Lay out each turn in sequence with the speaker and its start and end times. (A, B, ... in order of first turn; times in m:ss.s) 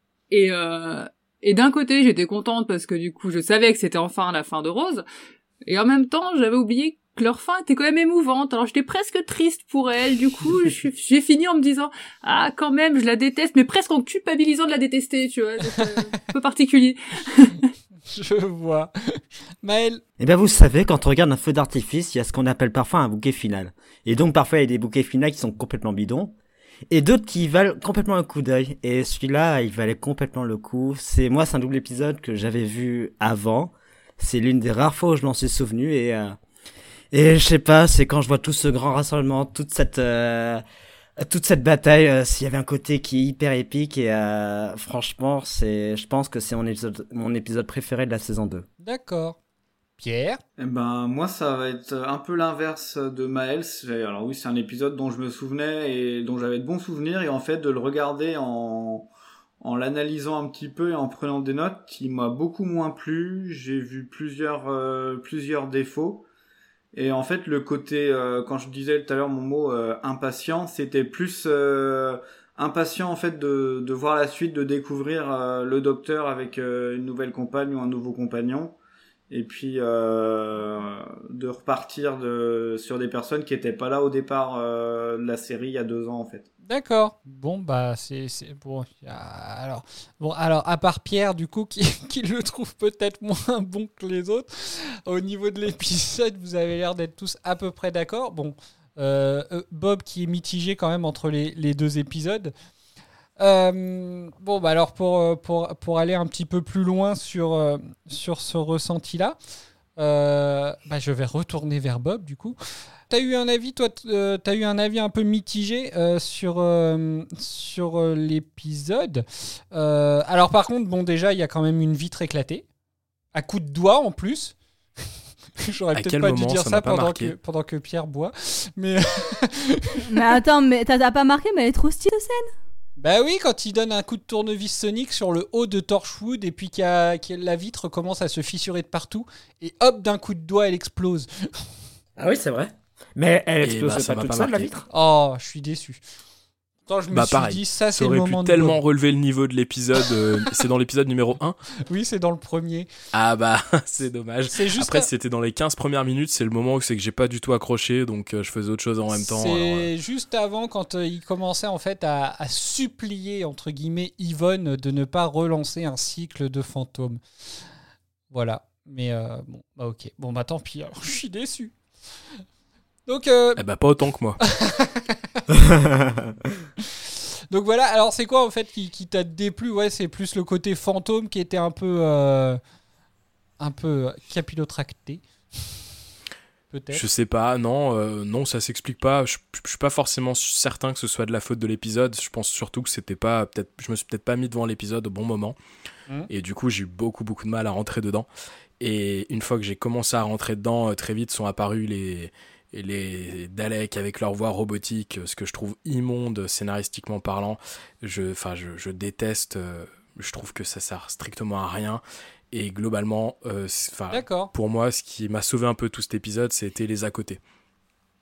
0:00.3-0:05.0 A
0:05.6-0:17.7 A
0:18.1-0:20.0 B
0:20.2-0:26.3 C
0:26.9-0:36.4 C
0:37.1-0:40.6 C
0:41.2-0:48.6 C
0:48.8-0:49.4 B
0:50.0-0:50.4 B
0:50.6-0:59.1 D
0:59.6-1:06.2 D
1:06.9-1:18.8 D
1:19.3-1:26.5 D
1:26.6-1:42.5 B
1:43.4-1:49.4 B
1:50.0-1:52.6 B
1:53.1-2:02.6 B
2:03.3-2:04.6 B
2:05.6-2:10.0 B
2:05.9-2:07.3 E
2:10.1-2:12.5 F
2:13.0-2:21.3 B
2:22.2-2:24.8 C
2:23.6-2:24.7 E
2:24.9-2:26.0 B
2:26.9-2:28.8 B
2:27.1-2:31.6 E
2:31.9-2:32.9 B
2:33.1-2:39.9 E
2:34.5-2:35.1 B
2:39.1-2:47.2 B
2:48.3-2:51.7 B
2:53.1-2:53.6 B
2:53.6-2:54.4 E
2:54.4-2:55.4 B
2:57.5-3:02.6 B
3:03.6-3:05.2 B
3:06.7-3:07.0 B
3:06.9-3:15.6 E
3:16.3-3:18.3 E
3:18.8-3:37.4 E
3:34.1-3:34.5 B